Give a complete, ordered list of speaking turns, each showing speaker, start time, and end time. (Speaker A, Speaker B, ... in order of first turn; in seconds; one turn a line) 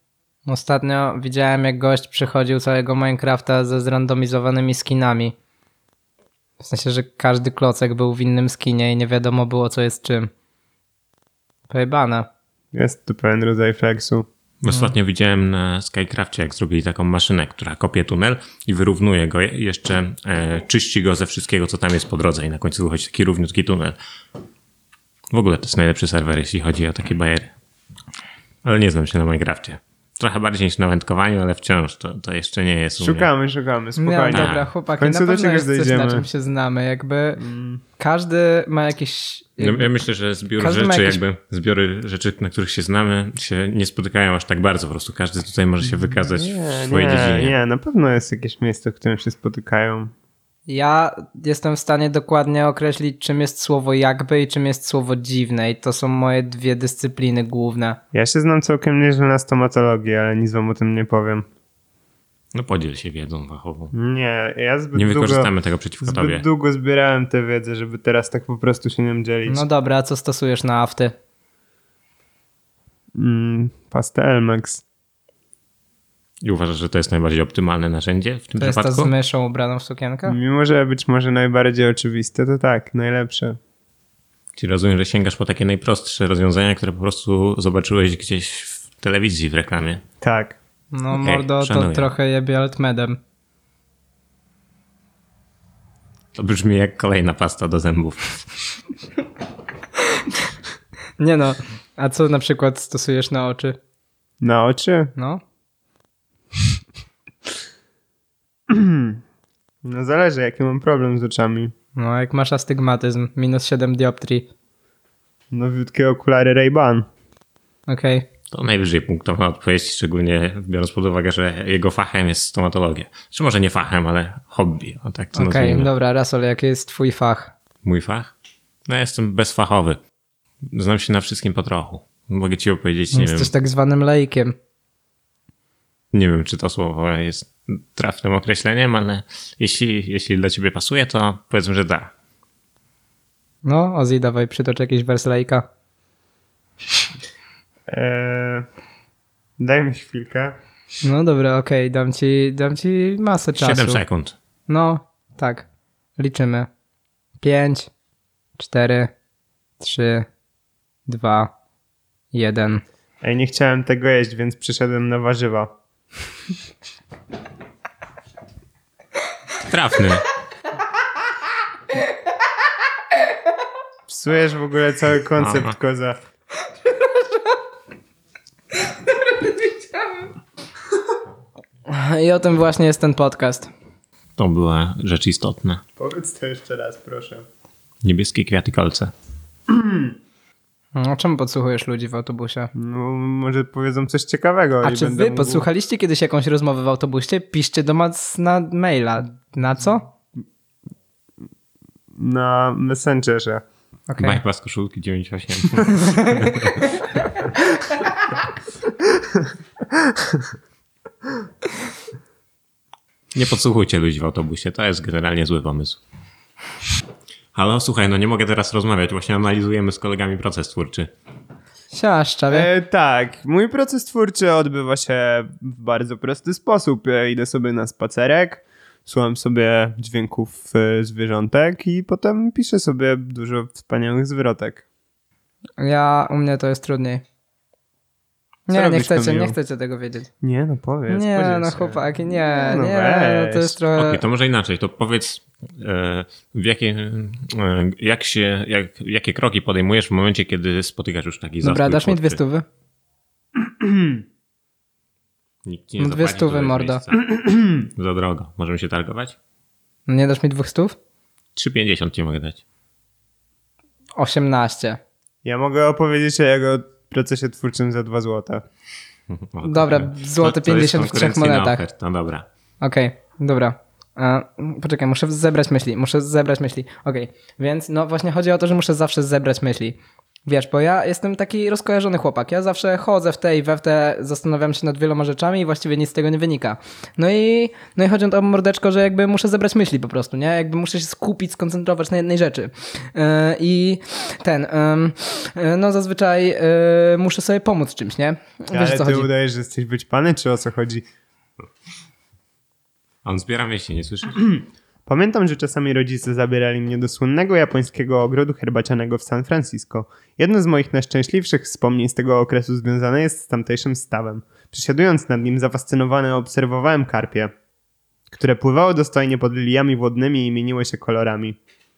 Speaker A: 0.5-5.3
Speaker A: 6.6-10.3
Speaker A: 11.7-12.3
Speaker B: 12.7-14.3
Speaker C: 14.6-24.0
Speaker C: 25.3-27.5
Speaker C: 28.6-33.3
Speaker B: 33.0-36.3
Speaker A: 34.0-37.4
Speaker C: 34.3-34.7
Speaker B: 37.4-37.8
Speaker A: 38.0-39.9
Speaker C: 39.6-47.6
Speaker A: 40.6-41.2
Speaker B: 46.0-50.1
Speaker A: 50.7-58.0
Speaker B: 58.1-61.5
Speaker C: 62.5-63.9
Speaker B: 63.9-65.5
Speaker C: 65.0-66.5
Speaker B: 66.0-69.7
Speaker A: 69.5-71.2
Speaker B: 73.2-74.8
Speaker C: 76.4-79.1
Speaker A: 78.6-80.4
Speaker B: 80.3-83.6
Speaker C: 84.6-90.0
Speaker B: 90.2-90.6
Speaker A: 90.9-93.2
Speaker C: 91.2-92.1
Speaker C: 96.3-98.5
Speaker A: 101.2-103.8
Speaker B: 104.4-105.1
Speaker A: 105.2-105.4
Speaker B: 108.7-109.2
Speaker B: 109.8-111.7
Speaker A: 112.0-114.5
Speaker B: 115.5-117.1
Speaker A: 117.9-118.3
Speaker C: 118.5-125.9
Speaker A: 125.3-127.5
Speaker C: 127.8-128.3
Speaker C: 128.9-130.0
Speaker C: 130.7-133.5
Speaker A: 133.1-134.6
Speaker C: 136.1-142.1
Speaker A: 143.6-145.7
Speaker B: 147.9-148.7
Speaker B: 149.6-150.6
Speaker A: 151.0-154.0
Speaker C: 153.6-154.4
Speaker A: 154.7-156.7
Speaker A: 157.4-157.9
Speaker A: 158.6-159.1
Speaker A: 159.8-160.3
Speaker A: 161.1-161.5
Speaker A: 162.3-162.8
Speaker B: 163.2-165.7
Speaker C: 169.7-170.3
Speaker B: 174.1-176.2
Speaker C: 175.4-175.7
Speaker A: 181.9-183.7
Speaker C: 184.4-185.8
Speaker B: 186.0-187.4
Speaker C: 188.0-189.1
Speaker B: 189.7-190.2
Speaker A: 190.9-192.7
Speaker B: 192.8-195.7
Speaker A: 194.8-200.1
Speaker B: 202.2-203.7
Speaker A: 204.1-204.4
Speaker C: 204.2-206.9
Speaker A: 206.0-206.4
Speaker B: 210.1-210.4
Speaker C: 213.3-216.0
Speaker C: 217.5-221.1
Speaker A: 221.9-222.7
Speaker B: 222.5-234.8
Speaker A: 235.8-237.2
Speaker A: 238.7-240.3
Speaker B: 238.7-239.6
Speaker B: 240.4-243.8
Speaker A: 241.1-244.2
Speaker C: 244.0-252.4
Speaker A: 251.6-252.7
Speaker B: 253.6-254.2
Speaker C: 255.7-259.4
Speaker A: 256.0-257.0
Speaker B: 257.4-257.7
Speaker A: 260.1-261.0
Speaker C: 261.6-262.6
Speaker A: 264.2-265.0
Speaker B: 265.4-268.6
Speaker C: 269.3-272.5
Speaker A: 269.6-271.8
Speaker A: 272.8-299.3
Speaker B: 298.7-301.1
Speaker C: 303.2-304.5
Speaker B: 305.1-317.5
Speaker B: 318.3-321.6